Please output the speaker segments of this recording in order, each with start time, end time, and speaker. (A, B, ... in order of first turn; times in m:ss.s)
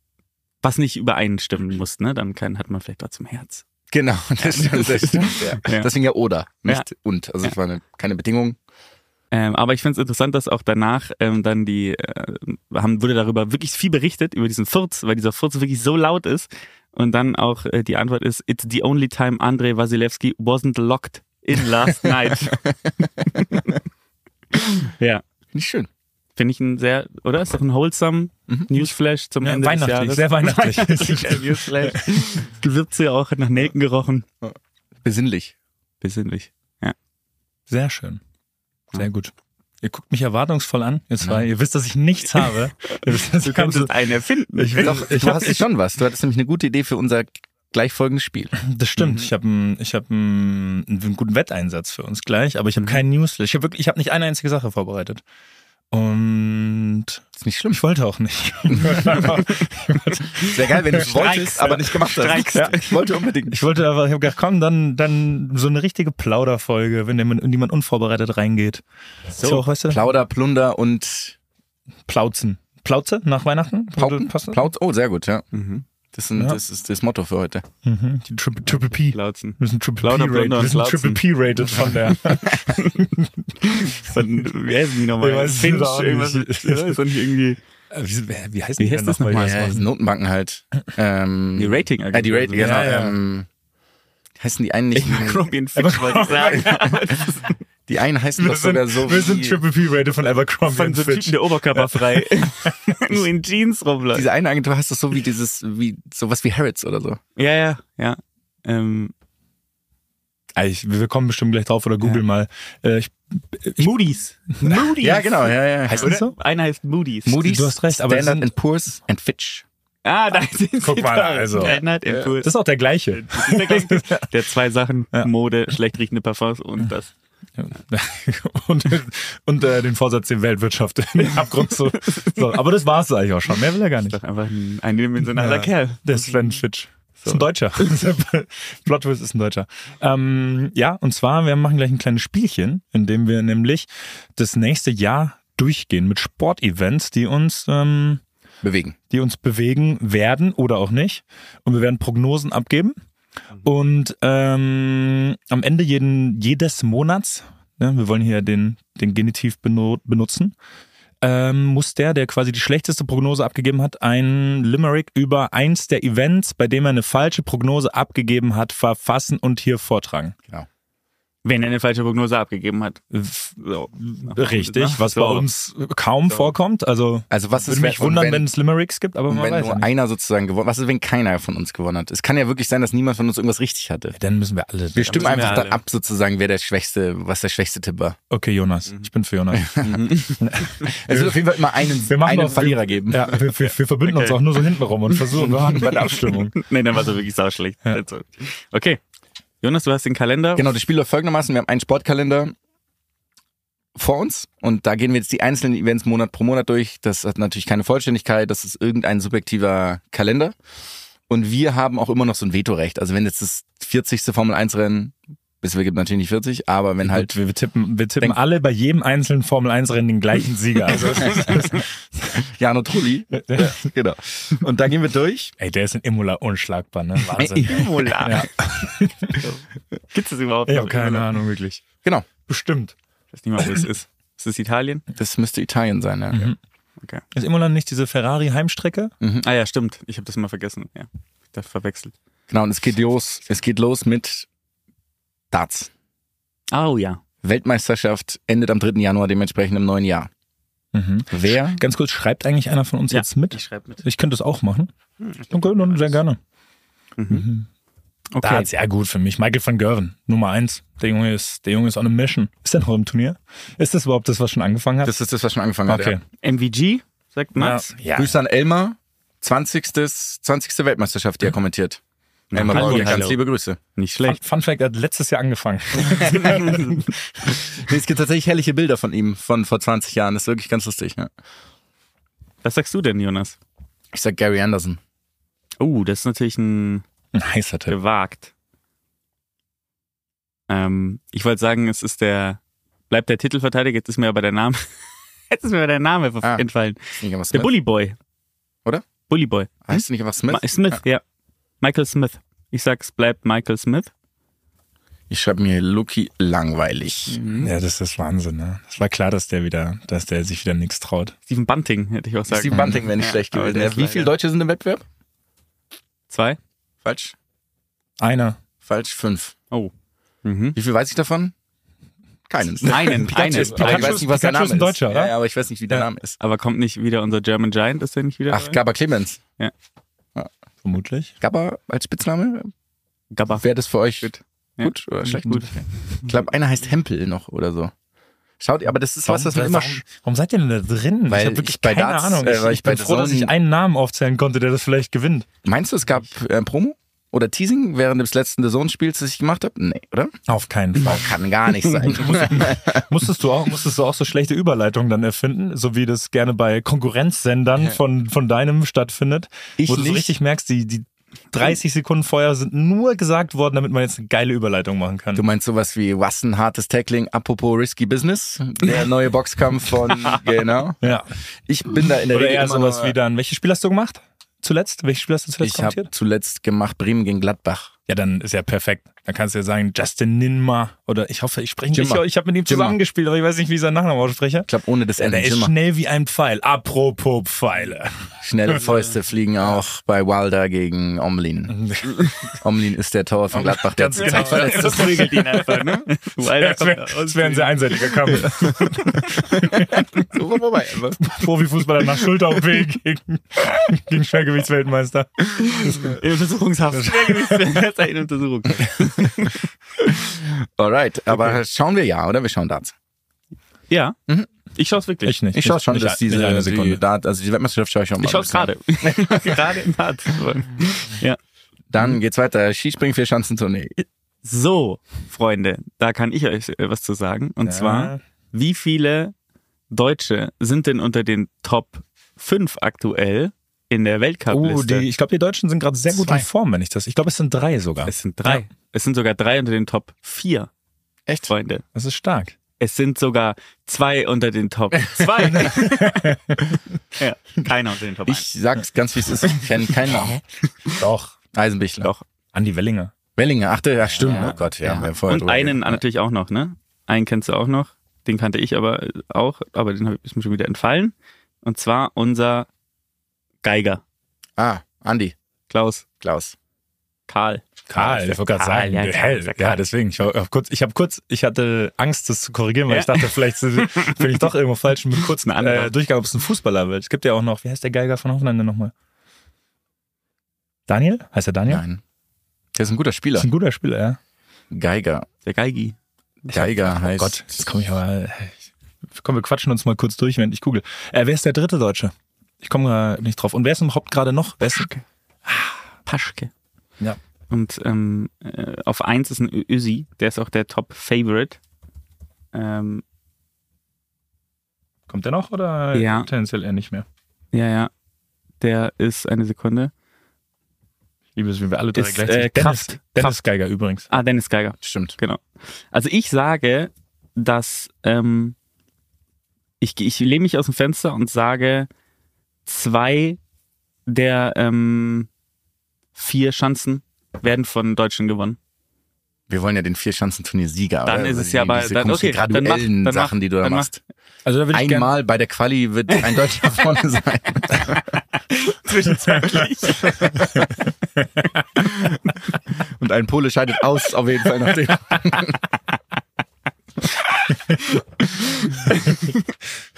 0:00.6-0:03.6 A
0:03.9-0:08.6 B
0:04.4-0:05.9 A
0:09.3-0:22.6 A
0:23.3-0:23.8 A
0:24.5-0:25.2 A
0:25.5-0:25.9 B
0:26.4-0:34.3 A
0:29.4-0:32.0 C
0:34.4-0:35.5 B
0:36.0-0:37.0 A
0:37.7-0:38.2 C
0:39.0-0:43.9 C
0:42.9-0:45.1 A
0:44.5-0:45.6 C
0:44.8-0:48.6 B
0:48.6-0:55.2 C
0:49.0-0:49.3 A
0:55.9-1:01.8 C
0:57.4-0:57.8 B
0:58.7-0:59.2 B
1:00.4-1:03.6 B
1:01.0-1:03.0 A
1:03.5-1:08.8 C
1:09.3-1:09.6 A
1:09.4-1:10.0 C
1:09.9-1:11.4 B
1:12.1-1:14.7 C
1:14.0-1:15.5 B
1:15.5-1:15.8 A
1:16.1-1:17.6 B
1:16.4-1:16.6 C
1:17.8-1:24.2 C
1:19.0-1:23.0 A
1:23.6-1:27.6 A
1:25.2-1:27.0 C
1:27.9-1:29.9 C
1:28.8-1:29.6 A
1:29.3-1:33.5 B
1:31.6-1:32.9 A
1:32.6-1:33.2 C
1:34.4-1:35.5 B
1:35.0-1:37.6 A
1:35.8-1:37.1 C
1:37.9-1:39.6 B
1:38.4-1:43.2 C
1:40.7-1:44.3 A
1:44.1-1:47.2 B
1:47.4-1:49.1 A
1:50.6-1:53.9 C
1:53.8-1:55.2 A
1:54.6-1:55.2 C
1:55.0-1:56.1 B
1:55.9-1:56.3 C
1:56.0-1:57.4 A
1:57.3-1:59.6 B
1:57.4-1:58.5 C
2:00.0-2:02.5 A
2:00.8-2:04.3 C
2:03.1-2:07.1 A
2:07.6-2:14.2 C
2:12.1-2:12.4 A
2:14.0-2:16.5 A
2:15.2-2:28.2 C
2:17.2-2:17.5 A
2:28.6-2:29.0 B
2:29.1-2:33.0 C
2:33.6-2:40.6 C
2:41.2-2:50.4 C
2:51.4-2:53.0 A
2:53.1-2:59.9 C
2:54.2-2:55.5 A
2:57.3-2:58.5 B
2:59.3-3:04.2 B
3:04.2-3:05.6 C
3:04.9-3:08.2 B
3:05.1-3:05.8 A
3:08.3-3:11.5 C
3:09.5-3:13.4 B
3:09.8-3:10.4 A
3:12.1-3:16.6 C
3:13.6-3:14.4 A
3:15.1-3:19.0 A
3:19.6-3:20.7 A
3:20.6-3:22.5 B
3:24.0-3:30.6 B
3:31.3-3:37.3 B
3:37.0-3:42.4 C
3:41.0-3:41.7 B
3:42.4-3:45.5 B
3:43.4-3:43.8 C
3:45.6-3:49.4 C
3:47.4-3:48.1 B
3:47.6-3:48.5 A
3:49.4-3:51.3 A
3:50.7-3:51.8 C
3:52.5-3:53.0 C
3:53.3-3:55.0 A
3:53.6-3:53.9 C
3:55.2-3:56.5 B
3:56.3-3:56.6 C
3:57.3-3:59.1 C
3:59.4-4:02.1 A
4:02.5-4:04.5 B
4:05.5-4:05.9 B
4:06.7-4:07.2 A
4:07.4-4:10.3 B
4:10.9-4:14.9 C
4:11.3-4:11.8 B
4:13.1-4:14.0 A
4:15.2-4:16.2 A
4:15.5-4:16.4 C
4:17.2-4:17.5 A
4:17.3-4:17.7 C
4:18.3-4:18.7 A
4:18.4-4:25.2 C
4:25.0-4:26.2 B
4:25.9-4:26.2 C
4:26.4-4:27.9 A
4:27.6-4:28.4 C
4:28.2-4:32.0 B
4:32.5-4:33.4 A
4:32.5-4:33.8 B
4:32.7-4:33.3 C
4:34.0-4:34.4 A
4:34.2-4:37.5 C
4:36.3-4:36.9 A
4:37.5-4:41.3 B
4:42.6-4:43.6 A
4:44.1-4:45.0 B
4:45.8-4:47.0 A
4:47.3-4:48.0 C
4:47.9-4:48.5 A
4:50.7-4:52.6 A
4:53.1-4:54.9 A
4:55.5-4:58.2 A
4:57.2-4:57.7 B
4:59.3-5:01.2 A
4:59.8-5:01.0 B
5:01.8-5:04.1 A
5:05.3-5:07.4 B
5:07.3-5:07.7 A
5:07.6-5:11.3 C
5:11.5-5:14.3 A
5:12.5-5:15.0 B
5:16.3-5:16.6 A
5:17.0-5:17.4 B
5:18.2-5:18.6 C
5:18.8-5:19.6 B
5:20.4-5:20.8 A
5:20.8-5:21.5 B
5:22.5-5:26.4 B
5:22.8-5:24.2 A
5:22.9-5:25.3 C
5:26.4-5:28.8 A
5:28.5-5:29.4 B
5:30.8-5:31.3 C
5:31.4-5:32.7 B
5:33.3-5:33.7 A
5:33.6-5:37.9 B
5:34.2-5:35.7 A
5:38.6-5:40.1 B
5:39.2-5:45.5 C
5:41.3-5:43.5 B
5:45.6-5:50.3 B
5:50.5-5:51.4 C
5:51.0-5:53.0 B
5:52.0-6:05.4 C
5:59.8-6:00.3 B
6:05.4-6:13.2 B
6:11.0-6:11.3 C
6:12.3-6:16.1 C
6:15.6-6:17.9 B
6:18.1-6:28.8 C
6:21.9-6:23.0 B
6:24.7-6:25.7 B
6:28.4-6:31.9 B
6:31.7-6:32.2 C
6:32.6-6:35.3 B
6:33.5-6:40.1 C
6:34.2-6:38.7 A
6:40.2-6:41.3 B
6:41.2-6:46.2 C
6:45.6-6:49.6 A
6:46.9-6:47.8 C
6:50.2-6:52.9 B
6:53.9-6:54.2 A
6:54.7-6:55.4 A
6:55.2-6:57.0 C
6:55.5-6:59.6 B
6:58.2-7:01.4 A
7:01.9-7:04.0 B
7:04.4-7:09.3 A
7:07.6-7:08.2 C
7:09.9-7:15.1 A
7:14.5-7:18.6 C
7:16.1-7:16.5 B
7:18.0-7:20.7 A
7:21.5-7:21.8 A
7:21.9-7:22.6 C
7:22.8-7:26.4 A
7:25.4-7:26.6 C
7:27.2-7:28.5 A
7:28.3-7:30.4 B
7:31.0-7:31.4 C
7:31.5-7:32.1 B
7:32.5-7:33.1 C
7:33.4-7:36.0 B
7:34.2-7:34.6 C
7:34.2-7:42.7 A
7:43.6-7:44.0 A
7:44.6-7:45.4 B
7:45.7-7:46.0 A
7:46.2-7:46.5 B
7:47.3-7:49.8 A
7:47.9-7:58.9 C
7:52.9-7:54.4 A
7:55.2-7:55.9 A
8:00.9-8:01.8 C
8:01.7-8:02.0 B
8:02.8-8:03.5 B
8:03.4-8:04.2 C
8:04.7-8:05.3 B
8:05.4-8:06.6 A
8:06.5-8:07.6 B
8:06.9-8:14.9 C
8:14.6-8:15.0 A
8:15.5-8:15.8 C
8:16.1-8:16.5 A
8:17.5-8:21.6 A
8:22.5-8:23.0 A
8:25.1-8:27.1 C
8:25.9-8:26.3 A
8:27.5-8:27.9 A
8:28.6-8:29.9 A
8:31.4-8:34.1 C
8:32.0-8:33.4 A
8:34.1-8:38.6 A
8:34.8-8:35.2 B
8:39.8-8:41.9 A
8:42.7-8:43.4 A
8:44.1-8:45.3 A
8:46.2-8:48.6 A
8:49.5-8:54.0 B
8:51.0-8:53.9 A
8:54.4-8:55.1 C
8:54.7-8:58.0 B
8:58.5-9:00.5 A
9:03.0-9:05.6 B
9:08.6-9:09.4 A